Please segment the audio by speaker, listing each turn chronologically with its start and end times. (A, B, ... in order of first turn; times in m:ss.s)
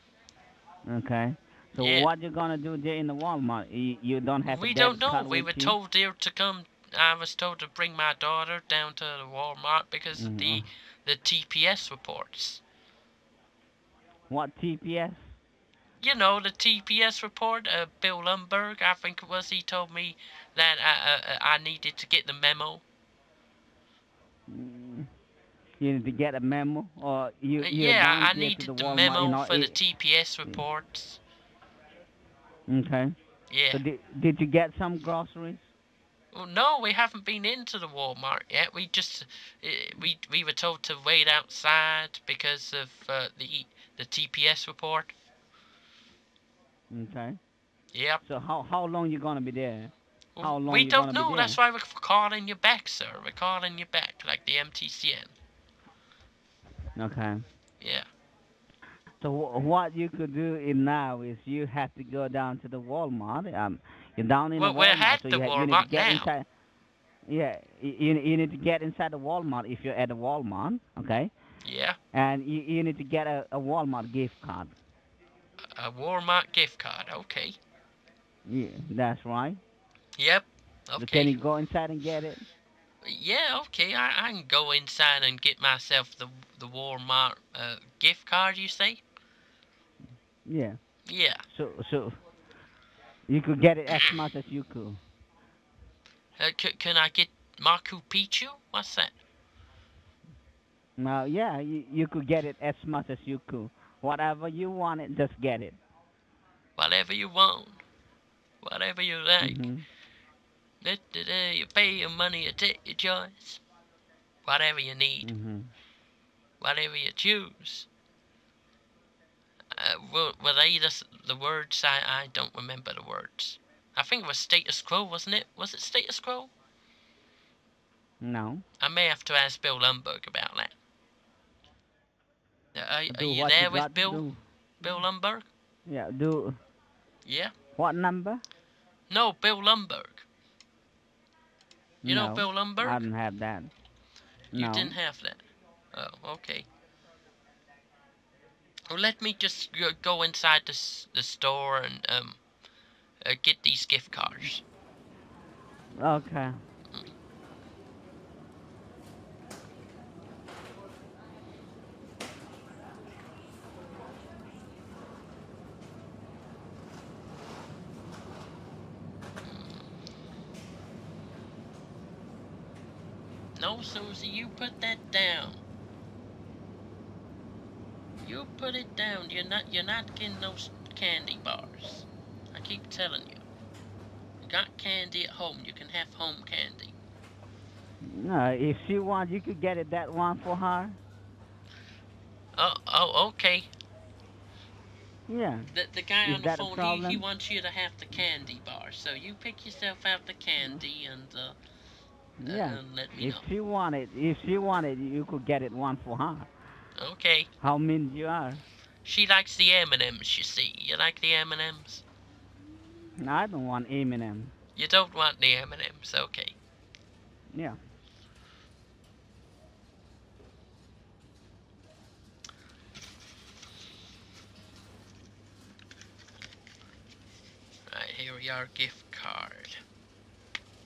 0:00.9-0:05.8 A
0:01.8-0:02.1 B
0:04.5-0:12.6 B
0:10.2-0:10.7 A
0:14.3-0:15.2 A
0:16.0-0:22.8 B
0:24.5-0:25.1 A
0:25.8-0:29.8 A
0:27.6-0:31.2 B
0:32.7-0:33.2 A
0:33.5-0:33.8 B
0:33.7-0:35.6 A
0:36.3-0:45.2 B
0:46.9-0:47.4 A
0:47.9-0:48.2 B
0:48.2-0:51.6 A
0:50.4-0:55.3 B
0:57.0-0:57.4 A
0:57.8-0:58.1 B
0:59.2-1:06.5 A
1:04.6-1:06.3 B
1:07.3-1:11.3 A
1:11.6-1:12.0 B
1:12.1-1:14.7 A
1:15.6-1:17.6 B
1:18.5-1:19.6 A
1:20.2-1:21.4 B
1:21.0-1:22.4 A
1:23.0-1:29.0 B
1:30.5-1:30.8 A
1:31.1-1:31.4 B
1:31.5-1:32.2 A
1:33.3-1:35.0 A
1:36.4-1:39.2 B
1:41.0-1:45.8 A
1:46.8-1:47.8 B
1:48.6-1:49.7 B
1:49.4-1:49.8 A
1:50.8-1:53.6 B
1:54.4-1:55.3 B
1:55.2-1:55.7 A
1:56.6-1:57.9 B
1:59.7-2:06.5 B
2:08.2-2:08.6 A
2:08.8-2:10.7 B
2:12.8-2:14.3 B
2:13.1-2:14.4 A
2:14.8-2:15.5 B
2:15.9-2:16.6 A
2:17.2-2:17.5 B
2:17.8-2:18.4 A
2:19.1-2:20.2 B
2:22.0-2:23.7 A
2:22.0-2:23.0 B
2:24.5-2:25.0 A
2:24.5-2:26.7 B
2:28.9-2:32.4 B
2:33.2-2:34.6 B
2:36.0-2:36.5 A
2:49.5-2:49.8 B
2:53.6-2:55.6 B
2:58.2-3:03.4 B
3:04.4-3:07.0 B
3:08.0-3:11.0 A
3:12.6-3:13.7 B
3:15.3-3:15.7 A
3:15.7-3:21.6 B
3:16.2-3:17.2 A
3:22.4-3:26.5 A
3:22.4-3:23.4 B
3:27.0-3:27.5 B
3:27.6-3:28.6 A
3:29.0-3:32.0 B
3:33.2-3:34.5 A
3:34.8-3:36.6 B
3:37.5-3:37.8 A
3:47.9-3:49.8 B